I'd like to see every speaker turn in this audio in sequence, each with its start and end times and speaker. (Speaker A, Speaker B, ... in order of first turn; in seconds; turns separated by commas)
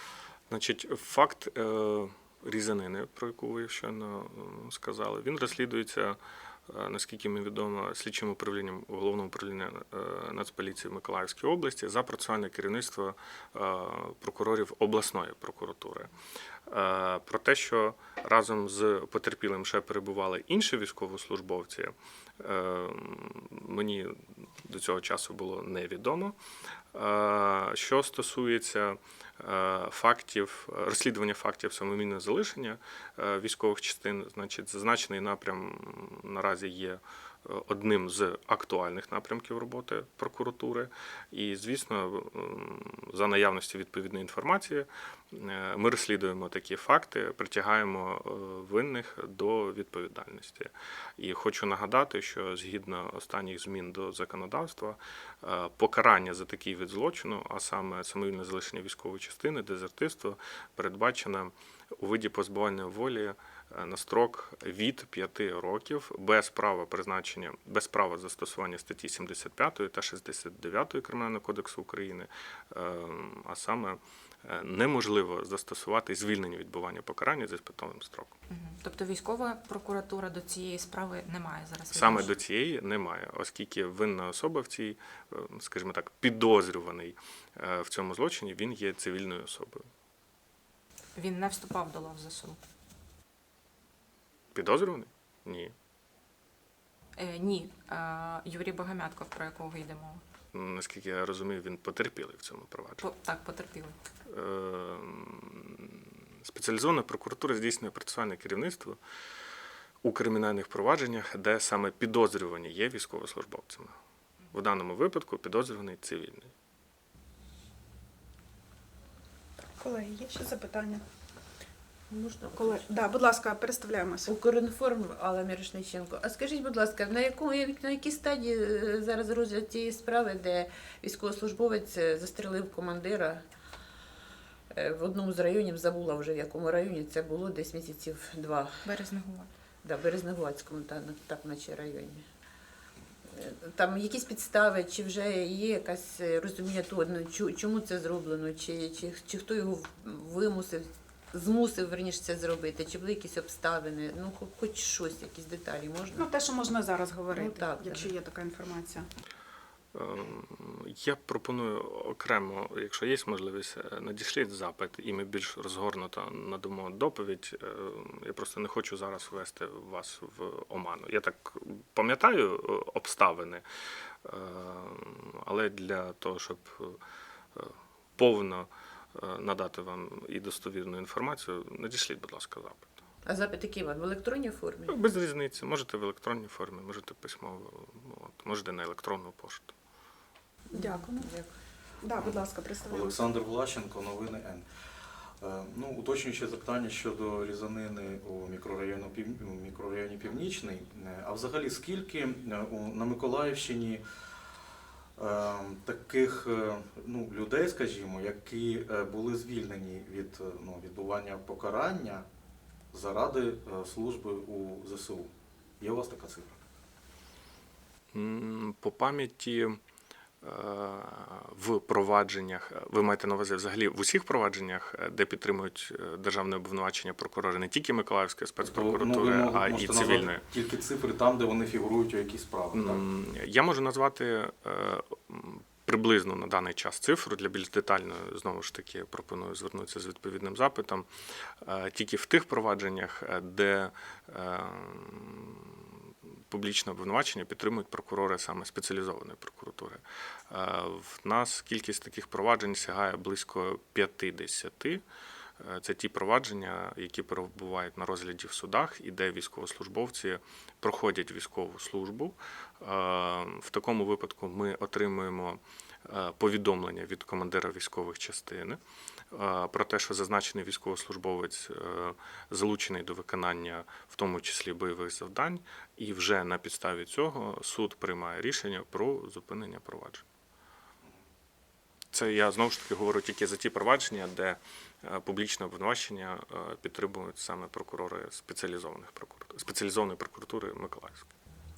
Speaker A: 0.5-16.1, Speaker A: 16.7-26.4, Speaker A: 26.9-78.4, Speaker B: 78.5-82.3, Speaker A: 81.9-89.9, Speaker B: 91.2-92.6, Speaker A: 94.5-95.7, Speaker B: 97.2-100.2, Speaker A: 100.5-103.1, Speaker B: 103.0-104.0, Speaker A: 104.3-109.0, Speaker A: 110.0-114.0, Speaker A: 114.5-116.5, Speaker C: 119.8-121.0, Speaker D: 122.1-123.0, Speaker C: 122.6-124.3, Speaker D: 124.3-133.4, Speaker D: 134.7-138.9, Speaker B: 138.8-139.5, Speaker D: 139.8-142.3, Speaker D: 143.3-156.3, Speaker C: 156.2-159.1, Speaker D: 157.3-158.1, Speaker A: 159.9-173.6, Speaker A: 174.2-177.0, Speaker A: 177.6-182.9, Speaker D: 183.2-185.0, Speaker A: 184.9-189.8, Speaker D: 190.7-191.5, Speaker C: 190.7-191.3, Speaker C: 192.0-193.2, Speaker E: 192.2-194.7, Speaker E: 195.4-204.0, Speaker E: 205.2-212.3, Speaker E: 212.9-216.6, Speaker A: 218.1-219.8, Speaker A: 220.4-230.4, Speaker E: 228.7-233.0, Speaker A: 232.7-246.0, Speaker A: 246.5-255.0, Speaker A: 255.6-268.8, Speaker A: 269.3-280.2, Speaker A: 282.1-291.3